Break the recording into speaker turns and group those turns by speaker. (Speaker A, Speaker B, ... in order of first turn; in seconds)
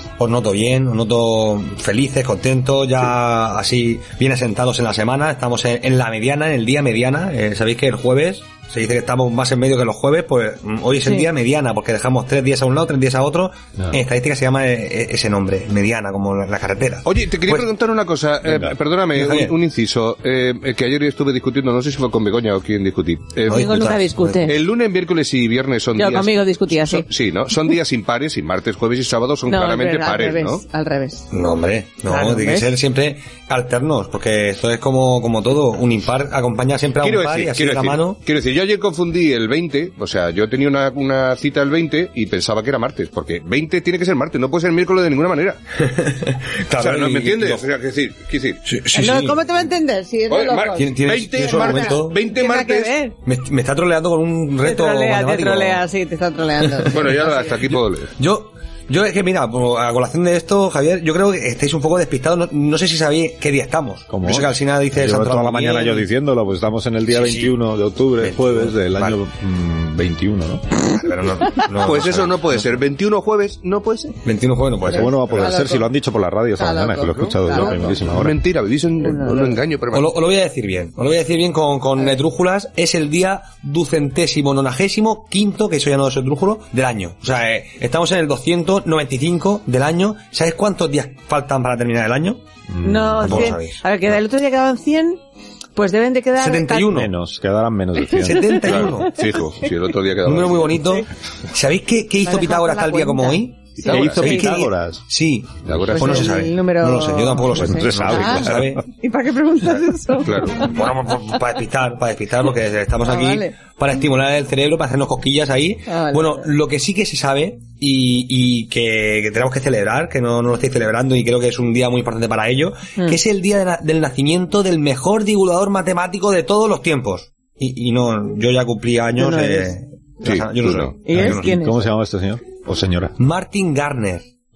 Speaker A: 0.2-17.7, 19.1-19.6, 23.5-24.5, 31.3-38.2, 45.9-47.6, 48.7-49.4, 50.8-52.2, 53.2-55.8, 56.8-57.1, 57.7-66.1, 67.1-67.5, 68.2-69.2, 70.9-72.8, 74.2-75.6, 79.9-92.4, 93.2-93.8, 96.4-97.1, 98.2-99.2, 100.2-108.8, 110.6-131.7, 133.2-134.3
Speaker B: 17.1-23.7, 24.4-30.6, 37.0-45.6, 46.8-48.6, 50.3-53.0, 56.9-58.1, 71.8-74.2, 77.5-80.2, 98.7-101.0, 103.8-104.4, 105.7-106.3, 110.2-110.7, 130.2-131.0
Speaker C: 23.5-24.6, 26.0-27.1, 29.5-31.3, 32.1-32.8, 48.9-50.9, 51.4-53.1, 54.6-57.3, 75.2-75.9, 76.6-77.9, 79.0-79.6, 92.8-95.2, 95.8-96.9, 102.2-104.5, 105.9-110.6, 113.0-113.5, 115.9-116.5, 129.2-129.7, 131.1-131.8
Speaker D: 64.1-70.7, 74.9-78.4, 92.7-93.5, 96.9-98.9, 103.8-105.0, 107.5-108.8, 131.1-133.2